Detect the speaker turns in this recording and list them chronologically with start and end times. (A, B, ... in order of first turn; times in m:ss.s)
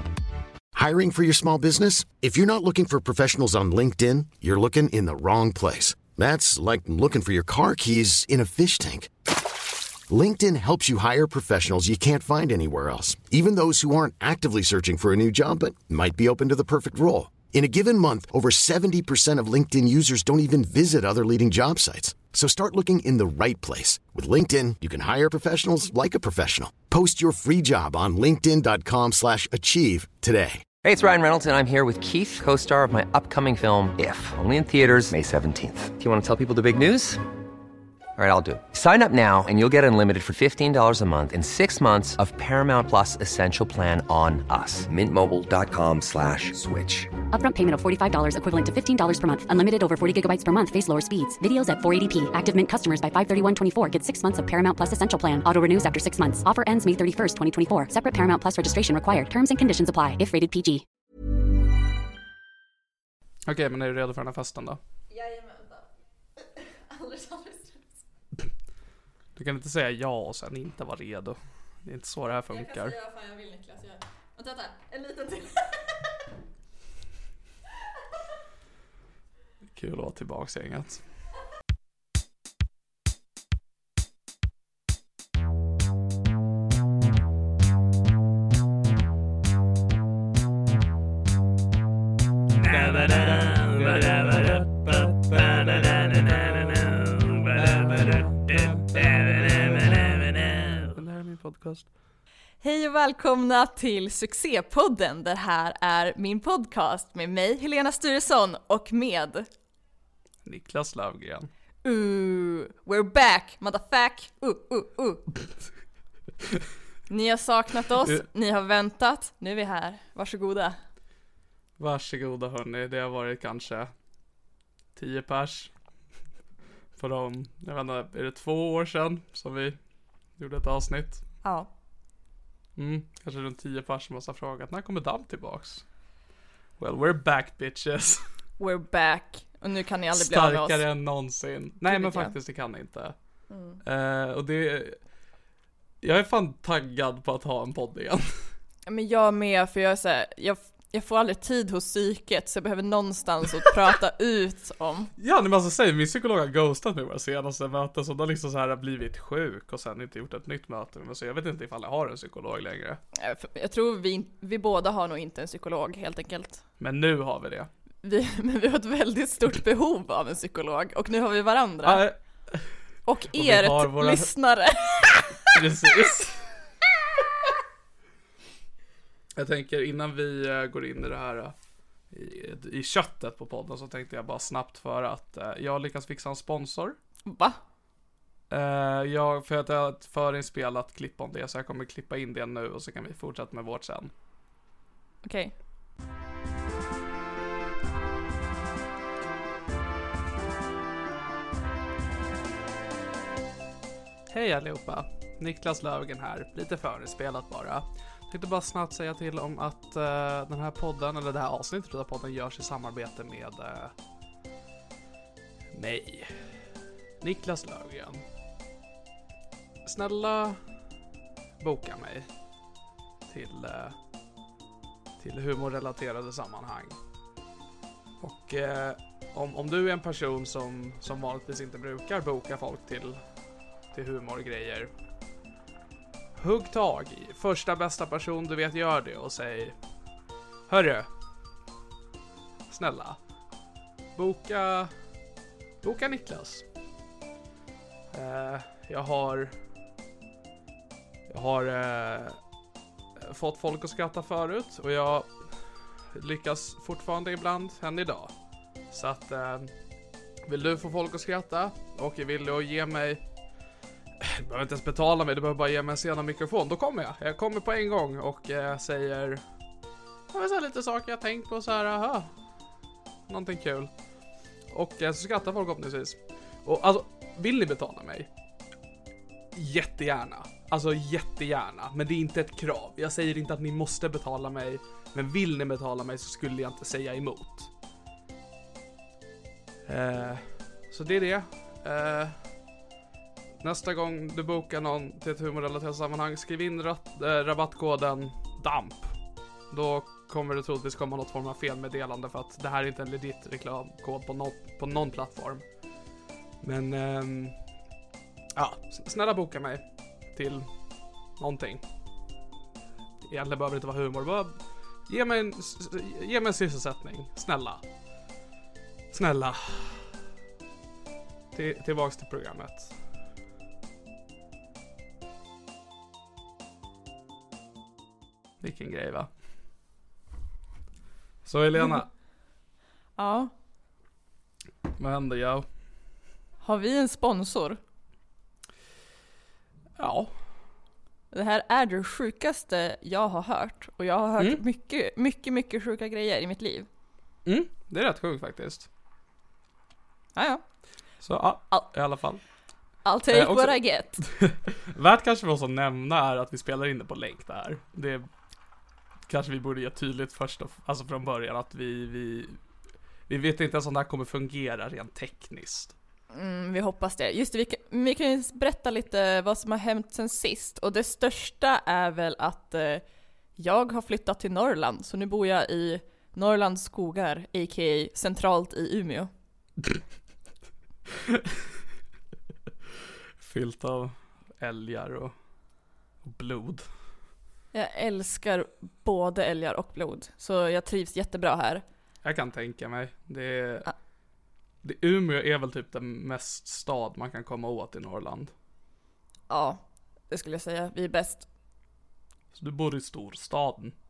0:00.7-0:09.1 A
0:10.1-0:30.6 A
0:30.8-0:37.2 B
0:38.2-0:47.1 B
0:47.3-1:00.8 C
1:03.4-1:04.8 D
1:05.1-1:05.8 E
1:06.4-1:07.9 E
1:09.4-1:12.9 D
1:12.5-1:15.9 E
1:19.7-1:21.0 D
1:32.6-1:41.9 D
1:42.6-1:49.5 E
1:50.4-1:51.5 D
1:51.8-1:55.2 E
1:57.1-2:00.8 E
2:01.8-2:03.9 D
2:05.0-2:05.7 D
2:07.0-2:09.8 D
2:10.4-2:11.2 D
2:11.4-2:11.7 E
2:12.8-2:15.9 D
2:16.8-2:18.2 D
2:18.6-2:20.8 E
2:20.1-2:23.1 D
2:21.9-2:22.3 E
2:23.5-2:23.8 E
2:23.8-2:25.0 D
2:26.0-2:28.5 D
2:28.9-2:35.1 E
2:35.2-2:43.0 D
2:43.2-2:46.6 E
2:46.8-2:47.7 D
2:48.0-2:52.0 E
2:51.8-2:54.3 D
2:53.0-2:55.5 E
2:55.4-2:56.5 D
2:59.4-3:01.5 D
3:02.1-3:07.0 D
3:07.2-3:07.6 E
3:08.5-3:14.1 D
3:15.2-3:15.5 E
3:24.3-3:33.9 D
3:35.7-3:36.5 D
3:37.2-3:38.2 D
3:39.8-3:40.6 D
3:41.6-3:42.3 D
3:43.3-3:44.0 D
3:45.2-3:47.0 D
3:48.2-3:53.2 D
3:53.9-3:54.9 D
3:56.4-3:59.7 D
4:00.7-4:01.1 D
4:02.7-4:03.2 D
4:04.2-4:04.9 D
4:05.8-4:06.6 D
4:08.1-4:09.6 D
4:11.3-4:12.4 D
4:13.2-4:18.3 D
4:18.9-4:19.7 D
4:20.4-4:23.2 D
4:24.2-4:29.4 D
4:30.3-4:32.3 D
4:33.3-4:33.9 D
4:34.7-4:38.3 D
4:39.5-4:47.7 D
4:49.8-4:52.5 D
4:53.6-5:05.6 D
5:06.6-5:07.7 D
5:08.6-5:10.7 D
5:11.4-5:11.8 D
5:13.2-5:17.8 D
5:19.1-5:20.1 D
5:21.5-5:23.0 D
5:28.6-5:29.3 D
5:31.4-5:32.1 D
5:33.2-5:33.5 E
5:35.0-5:35.6 D
5:36.6-5:37.8 E
5:40.0-5:40.3 D
5:41.3-5:46.9 E
5:47.4-5:48.9 D
5:50.3-5:50.6 E
5:51.2-5:52.4 D
5:53.0-5:54.2 E
5:53.3-5:58.3 D
5:59.3-6:02.6 D
6:03.3-6:05.9 D
6:06.3-6:13.0 E
6:13.6-6:19.3 E
6:23.4-6:25.3 D
6:26.2-6:26.8 D
6:27.7-6:31.8 E
6:32.2-6:33.9 D
6:34.8-6:38.5 D
6:39.5-6:41.5 E
6:42.5-6:43.9 D